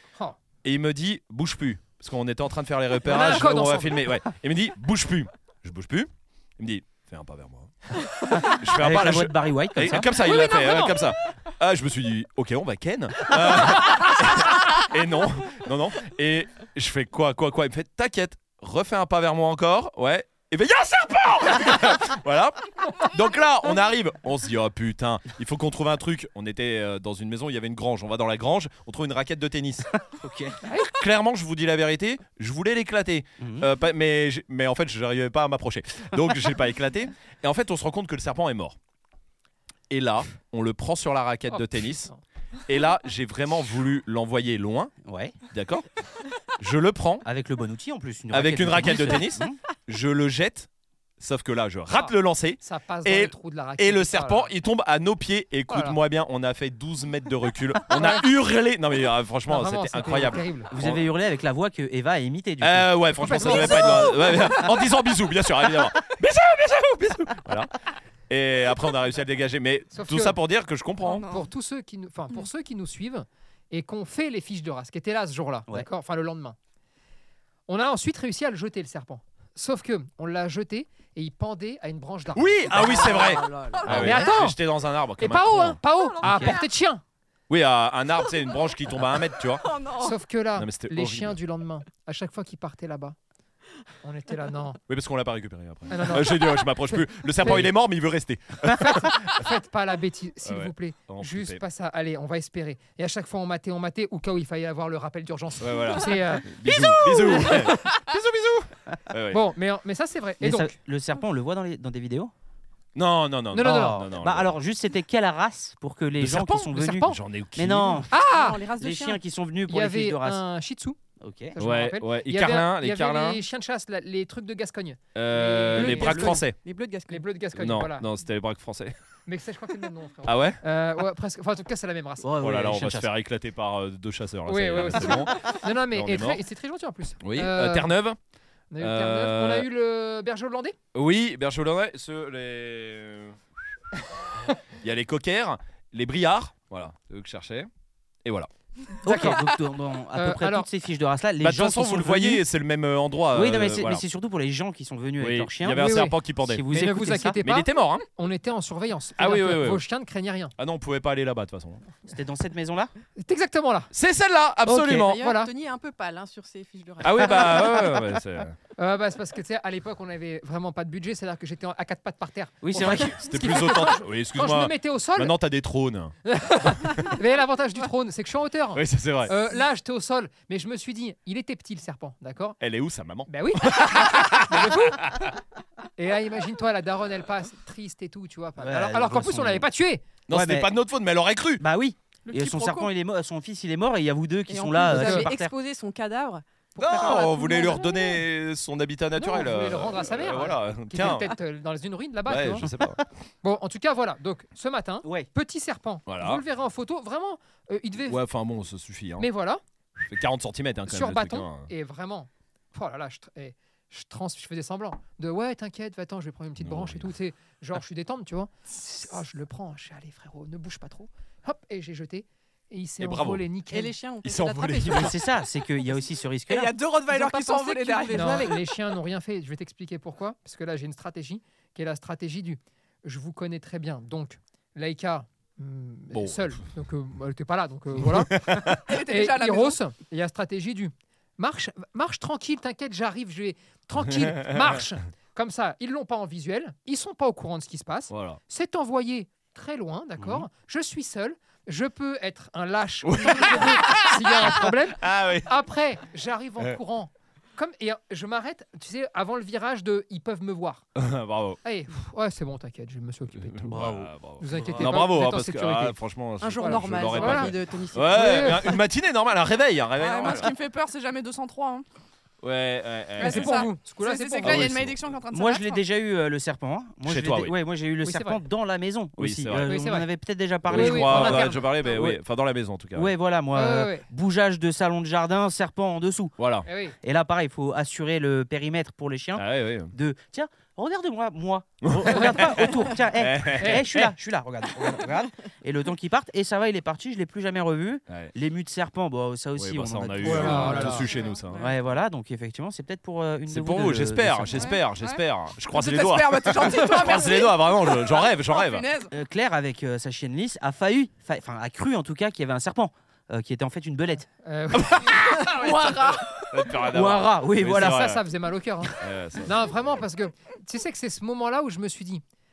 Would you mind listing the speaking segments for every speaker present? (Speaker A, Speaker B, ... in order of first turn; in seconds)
Speaker A: 0.6-29.9, 30.8-38.8, 39.9-42.1, 42.7-44.9, 45.5-45.9, 46.6-47.2, 48.3-50.7, 51.2-61.0, 62.6-67.7, 68.3-71.3, 82.3-85.8, 87.5-89.7, 90.6-91.4, 94.9-99.5, 100.4-101.6, 105.6-109.4, 113.0-114.5, 116.2-118.0, 121.6-123.4, 125.2-126.6, 127.5-128.9, 130.2-130.6, 132.4-136.4, 137.2-138.2, 138.8-139.7, 140.9-143.4, 144.8-147.7, 151.4-154.0, 155.2-156.7, 157.4-158.1, 159.2-159.8, 160.6-161.9, 163.9-165.2, 167.0-168.6, 172.8-177.1, 178.7-179.3, 182.6-185.3, 190.3-191.6, 196.8-201.3, 202.3-203.0, 206.1-206.4, 208.1-209.3, 210.1-211.7, 216.6-217.1, 223.0-223.4, 224.2-225.2, 236.1-236.5, 238.0-238.8, 244.1-244.8, 248.1-248.4, 253.1-255.5, 261.0-261.6, 263.4-270.5, 272.4-273.7, 274.4-275.0, 277.1-277.6, 279.2-279.8, 280.7-283.1, 286.4-286.7, 289.4-289.9, 291.8-294.1, 299.6-301.7, 303.5-308.9, 314.8-315.2, 316.3-318.2, 319.0-319.7
Speaker B: 3.0-4.1, 10.1-10.9, 30.6-30.9, 41.5-42.2, 51.9-54.5, 55.7-56.0, 57.9-58.2, 59.5-60.7, 63.2-64.6, 69.9-70.4, 71.2-76.6, 77.7-82.6, 83.8-84.6, 85.2-87.0, 90.0-93.2, 94.0-94.8, 95.9-97.7, 98.7-107.8, 109.3-110.7, 113.5-114.0, 116.8-117.2, 118.1-118.6, 119.7-121.0, 121.5-126.5, 127.1-128.1, 129.3-132.3, 134.5-137.9, 138.7-140.8, 149.1-149.5, 150.1-150.7, 155.8-156.2, 156.7-160.5, 163.2-163.9, 165.2-165.5, 168.8-175.3, 176.3-182.6, 183.3-185.0, 186.0-190.1, 194.9-195.3, 199.2-202.7, 203.4-208.2, 209.2-210.1, 210.9-223.9, 228.1-260.8, 261.6-266.0, 266.6-267.6, 268.1-268.7, 273.2-274.7, 278.0-278.4, 279.6-280.1, 280.7-281.8, 283.5-284.1, 286.6-287.0, 292.1-292.7, 293.6-293.9, 300.2-301.1, 314.4-315.4, 317.7-322.2
Speaker C: 8.3-10.1, 30.1-30.6, 33.4-33.7, 45.0-45.4, 47.2-49.6, 60.7-63.0, 86.2-86.5, 110.4-112.3, 113.5-118.1, 118.8-120.4, 121.2-121.6, 132.2-133.1, 149.0-152.4, 153.3-157.4, 162.1-162.9, 164.7-165.1, 172.6-173.2, 188.6-189.7, 190.3-190.7, 191.6-195.5, 224.9-226.7, 250.2-250.5, 275.3-281.6, 282.9-286.3, 287.0-301.0, 301.6-304.7, 309.1-314.3, 315.4-318.0
Speaker D: 82.7-84.3, 89.6-90.2, 118.1-119.2, 125.7-127.3, 164.8-168.0, 194.5-198.2, 223.7-225.4, 226.7-228.6, 266.4-268.8
Speaker E: 83.8-84.2, 192.3-192.9, 226.5-228.6, 238.8-239.8, 270.0-271.9, 273.2-275.8, 301.0-301.7, 304.5-309.1, 315.4-316.2